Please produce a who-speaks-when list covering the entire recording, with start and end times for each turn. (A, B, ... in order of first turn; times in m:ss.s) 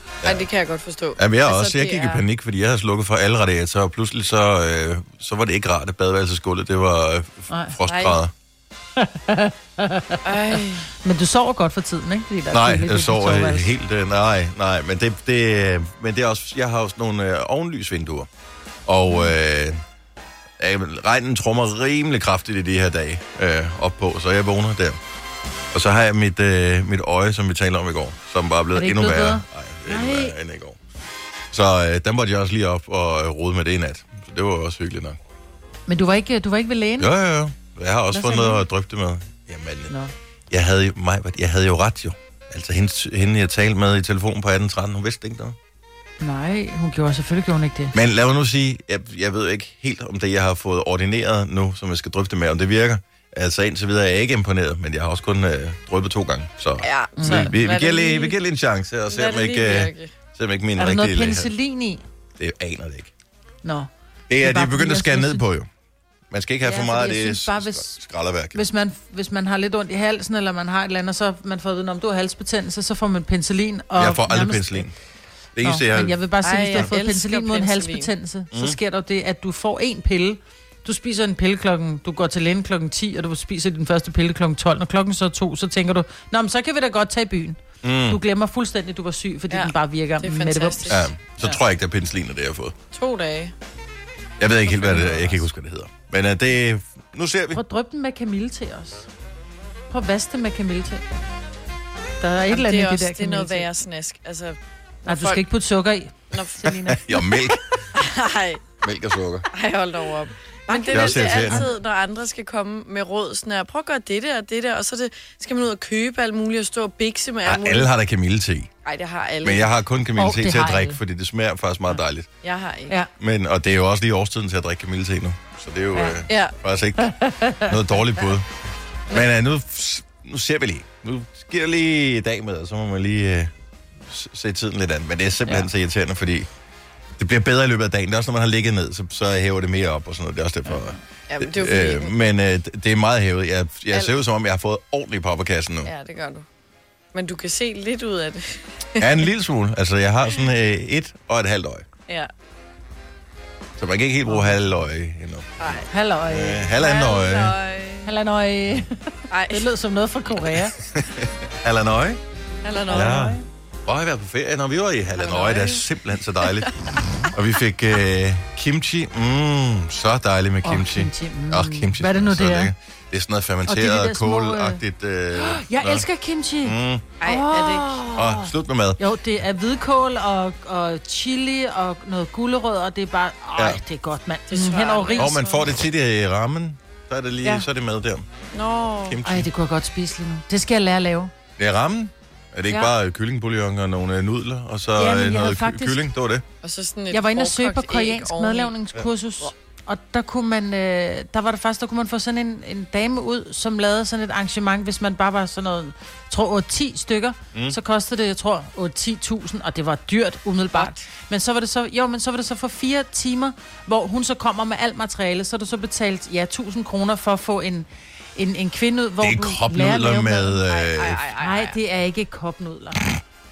0:00.2-0:02.2 A
0:01.2-0:08.3 B
0:07.5-0:07.8 C
0:07.9-0:08.2 A
0:09.0-0:13.7 C
0:10.2-0:10.9 A
0:12.5-0:18.3 B
0:18.9-0:19.8 B
0:20.6-0:25.0 B
0:25.7-0:30.8 B
0:28.7-0:30.4 C
0:31.5-0:35.2 B
0:35.9-0:37.1 C
0:37.0-0:39.9 B
0:38.1-0:38.6 C
0:40.5-0:45.6 B
0:46.2-0:47.9 C
0:47.9-1:01.5 B
0:56.8-0:58.4 A
0:57.2-0:57.6 C
0:59.1-1:00.1 A
1:00.8-1:02.0 C
1:02.4-1:03.1 B
1:03.6-1:05.4 C
1:04.3-1:05.7 B
1:06.3-1:08.7 B
1:06.6-1:08.0 C
1:08.5-1:14.9 C
1:14.0-1:14.9 B
1:15.6-1:16.2 B
1:15.6-1:31.6 C
1:16.4-1:18.1 A
1:18.5-1:18.8 B
1:27.8-1:28.2 B
1:29.5-1:31.1 A
1:30.9-1:32.8 B
1:32.9-1:33.5 A
1:34.4-1:37.6 B
1:34.7-1:35.4 A
1:37.5-1:39.1 C
1:39.9-1:41.0 C
1:42.2-1:43.7 C
1:42.5-1:45.4 A
1:45.1-1:47.5 C
1:46.3-1:46.6 A
1:46.6-1:47.6 B
1:47.9-1:48.7 A
1:48.8-1:49.5 B
1:49.5-1:57.9 A
1:50.7-1:51.7 C
1:50.9-1:51.7 B
1:57.4-1:58.7 B
1:58.8-1:59.7 A
1:59.4-2:02.3 B
2:00.2-2:01.0 C
2:02.4-2:03.0 A
2:03.2-2:08.5 B
2:06.0-2:06.2 C
2:06.3-2:06.5 A
2:07.0-2:07.8 C
2:09.1-2:13.5 B
2:14.1-2:16.5 B
2:17.2-2:25.9 B
2:20.7-2:21.0 C
2:21.3-2:22.1 A
2:25.8-2:26.5 A
2:27.1-2:29.2 A
2:29.0-2:31.9 B
2:33.8-2:35.8 B
2:35.6-2:35.9 A
2:35.9-2:36.7 C
2:36.3-2:37.6 B
2:36.7-2:38.1 A
2:38.0-2:40.8 C
2:39.3-2:39.7 A
2:40.4-2:42.2 B
2:42.6-2:43.2 A
2:42.9-2:43.4 C
2:42.9-2:46.7 B
2:45.2-2:45.9 A
2:46.4-2:47.1 A
2:47.3-2:56.1 B
2:50.6-2:52.7 C
2:53.6-3:05.4 C
2:56.6-2:57.1 B
2:57.2-2:58.0 A
2:58.2-2:59.0 B
3:04.5-3:05.7 A
3:05.2-3:08.3 B
3:08.5-3:09.2 A
3:09.1-3:09.5 B
3:09.2-3:11.3 C
3:11.6-3:16.4 B
3:15.0-3:16.0 C
3:16.6-3:18.7 A
3:17.1-3:40.6 C
3:30.8-3:31.0 A
3:39.2-3:41.3 B
3:40.7-3:41.8 A
3:41.4-3:43.2 C